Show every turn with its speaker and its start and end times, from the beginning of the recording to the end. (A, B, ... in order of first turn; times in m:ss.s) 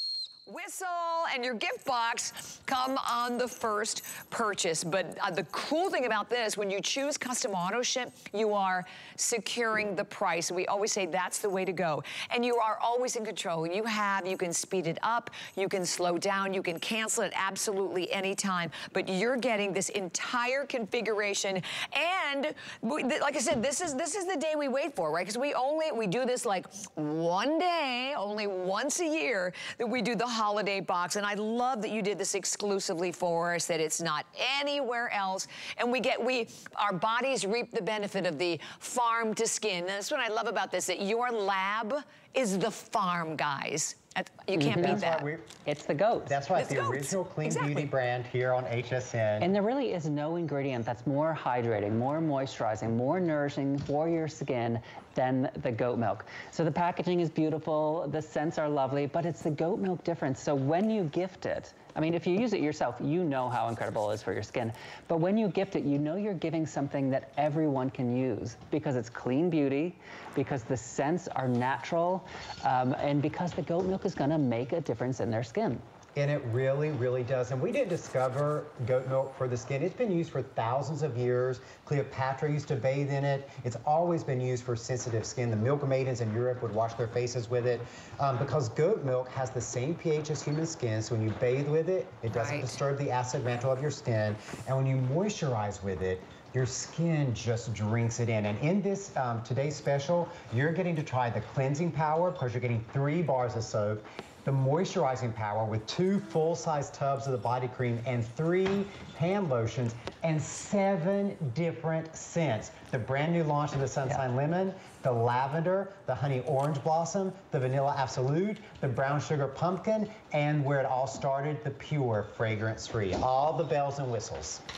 0:00.4-0:45.2 A
0:44.5-0:45.0 B
0:44.8-0:45.6 C
0:45.6-0:46.4 B
0:46.2-0:49.5 C
0:46.5-0:47.9 A
0:49.4-1:15.8 B
1:16.2-2:04.6 C
1:32.3-1:32.8 A